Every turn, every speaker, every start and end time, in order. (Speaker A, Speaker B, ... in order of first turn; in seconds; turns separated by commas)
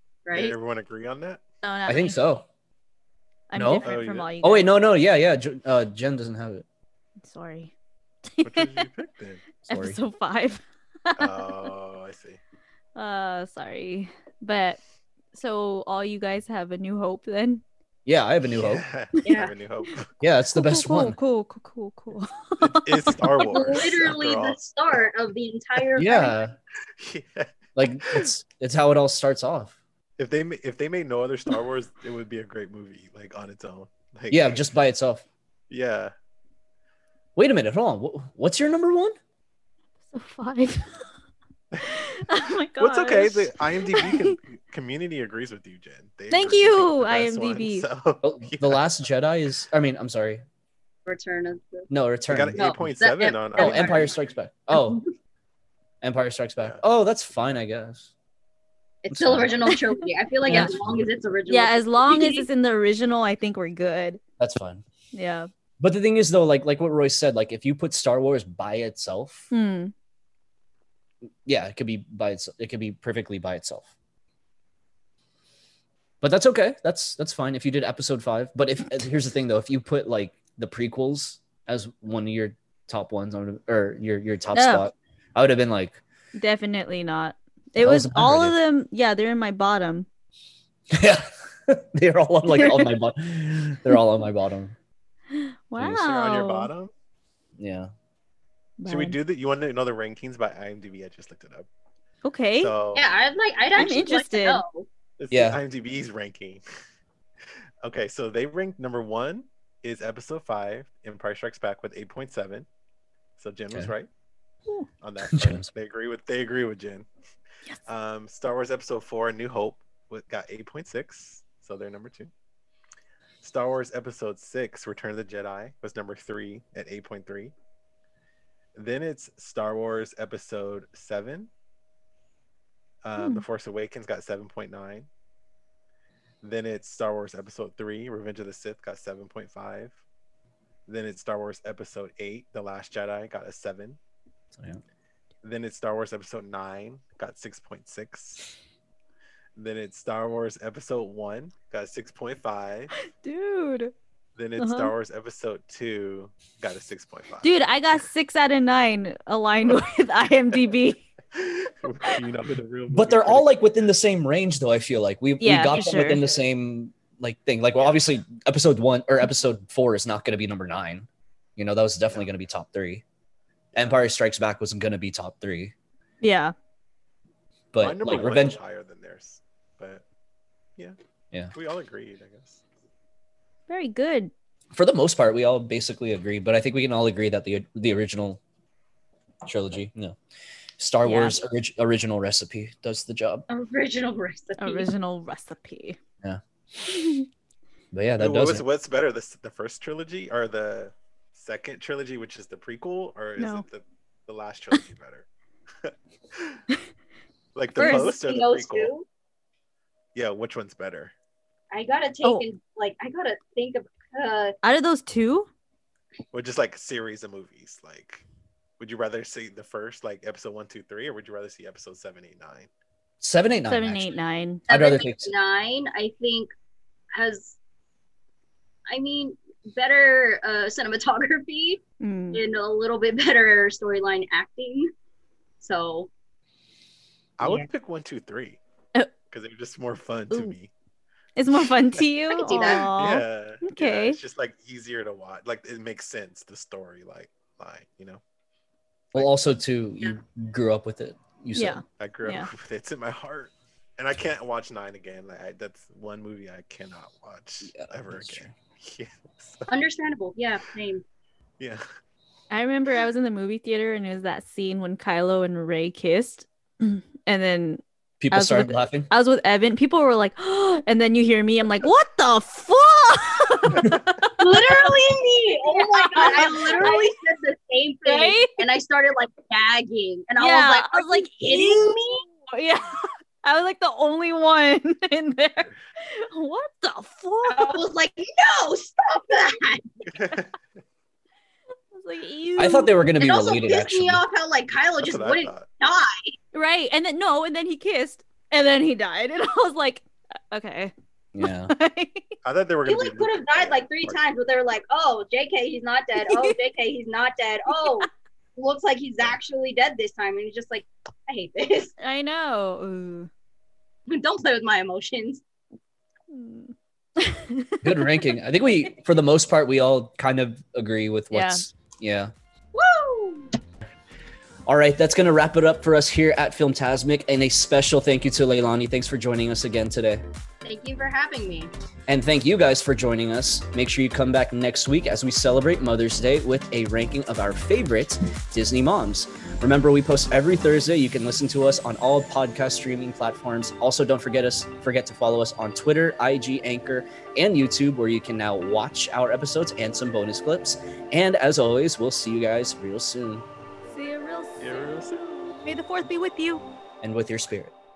Speaker A: 0.2-0.5, Speaker B: 0.3-1.4, Speaker C: 1.6-2.2, Speaker D: 1.9-2.5, Speaker C: 3.5-4.7, Speaker D: 3.5-3.9, Speaker B: 3.8-4.3, Speaker D: 4.4-6.6, Speaker C: 7.2-7.7, Speaker C: 8.3-8.8, Speaker B: 8.4-9.4, Speaker D: 9.6-10.0, Speaker C: 9.7-11.5, Speaker B: 11.2-12.4, Speaker C: 12.9-14.8, Speaker C: 15.3-17.6, Speaker D: 18.1-18.9, Speaker B: 18.5-20.1, Speaker A: 19.2-19.5, Speaker D: 20.2-21.2, Speaker C: 20.5-23.5, Speaker B: 22.6-24.6, Speaker A: 23.4-26.4, Speaker D: 25.9-26.6, Speaker B: 27.0-28.3, Speaker D: 27.8-29.8, Speaker B: 30.2-34.7, Speaker D: 34.3-35.2, Speaker B: 35.7-36.1, Speaker D: 37.4-39.1, Speaker C: 40.1-41.0, Speaker C: 41.8-44.4, Speaker B: 42.8-48.8, Speaker C: 46.3-47.9, Speaker D: 48.2-50.4, Speaker A: 51.1-51.9, Speaker D: 51.9-52.8, Speaker B: 52.3-54.2, Speaker A: 52.5-54.1, Speaker D: 53.6-55.0, Speaker A: 54.7-55.0, Speaker D: 56.0-58.1, Speaker A: 59.0-62.5, Speaker D: 59.1-59.6, Speaker C: 59.6-60.7, Speaker D: 60.4-61.1, Speaker C: 61.5-64.2, Speaker D: 64.4-64.8, Speaker C: 65.1-65.5, Speaker D: 65.8-69.5, Speaker C: 69.5-69.9, Speaker D: 71.5-73.9, Speaker D: 76.2-86.0, Speaker C: 84.5-84.9, Speaker C: 86.3-90.1, Speaker D: 87.8-88.5, Speaker D: 90.9-94.7, Speaker C: 92.5-92.9, Speaker C: 95.3-96.7, Speaker D: 95.8-96.0, Speaker B: 95.9-96.9, Speaker D: 97.6-97.9, Speaker C: 98.8-99.2, Speaker B: 98.9-101.7, Speaker C: 102.2-102.7, Speaker B: 102.5-103.1, Speaker A: 102.9-104.9, Speaker C: 103.7-104.6, Speaker B: 105.2-106.6, Speaker D: 105.3-105.6, Speaker B: 107.8-112.7, Speaker B: 113.4-114.1, Speaker B: 115.0-117.1, Speaker D: 115.3-115.7, Speaker B: 117.9-122.3, Speaker B: 123.4-127.5, Speaker B: 128.7-131.5, Speaker B: 133.0-135.1, Speaker C: 133.2-133.4, Speaker B: 136.4-140.0, Speaker B: 140.9-144.0, Speaker D: 144.5-144.8, Speaker B: 145.4-148.5, Speaker B: 149.6-152.9, Speaker C: 153.1-153.9, Speaker B: 154.4-157.5, Speaker C: 154.6-154.9, Speaker C: 157.4-161.0, Speaker B: 161.3-163.6, Speaker D: 162.9-173.0, Speaker C: 165.4-166.3, Speaker B: 167.8-168.1, Speaker D: 173.7-175.7, Speaker C: 176.2-176.5, Speaker D: 177.7-178.6, Speaker B: 177.8-180.0, Speaker B: 181.5-182.6, Speaker C: 183.7-184.3, Speaker D: 184.7-188.4, Speaker D: 189.4-190.2, Speaker D: 190.8-193.4, Speaker C: 191.0-191.4, Speaker A: 193.5-194.9, Speaker C: 194.6-196.0, Speaker C: 196.9-197.2, Speaker D: 197.9-198.6, Speaker B: 198.2-205.2, Speaker C: 203.4-203.6, Speaker B: 205.8-206.6, Speaker B: 207.5-208.9, Speaker A: 207.8-209.1, Speaker C: 207.8-208.1, Speaker B: 210.1-211.1, Speaker A: 211.7-214.6, Speaker C: 214.6-215.5, Speaker B: 216.3-218.2, Speaker B: 218.8-222.7, Speaker D: 223.2-224.1, Speaker C: 223.7-224.6, Speaker D: 224.7-225.3, Speaker A: 224.7-226.5, Speaker A: 227.1-227.6, Speaker A: 228.9-231.8, Speaker C: 232.0-232.4, Speaker A: 232.3-234.9, Speaker A: 235.6-236.1, Speaker B: 237.4-238.6, Speaker A: 237.4-237.7, Speaker B: 239.3-240.7, Speaker C: 241.4-244.2, Speaker A: 242.3-242.9, Speaker B: 242.7-248.2, Speaker D: 249.1-251.8, Speaker C: 251.5-252.5, Speaker B: 252.0-259.7, Speaker D: 257.6-258.5, Speaker A: 259.7-261.0, Speaker C: 262.5-277.1, Speaker D: 268.2-269.1, Speaker A: 274.4-282.2, Speaker C: 278.1-278.6, Speaker C: 280.4-287.8, Speaker A: 287.4-290.1, Speaker B: 290.1-290.5, Speaker C: 291.9-293.0, Speaker D: 292.6-294.2, Speaker A: 293.2-296.3, Speaker B: 294.9-295.6, Speaker C: 296.5-302.3, Speaker D: 301.3-301.7, Speaker B: 302.4-304.2, Speaker A: 302.9-311.9, Speaker C: 306.2-306.6, Speaker C: 307.7-308.1, Speaker C: 312.0-313.3, Speaker A: 314.1-315.4, Speaker C: 316.3-318.3, Speaker D: 317.8-322.3, Speaker C: 321.3-321.6, Speaker A: 322.7-323.6, Speaker D: 324.7-330.2, Speaker A: 330.6-331.7, Speaker D: 332.1-353.4, Speaker C: 353.9-354.9, Speaker B: 354.6-355.6, Speaker C: 355.6-356.6, Speaker D: 357.0-357.7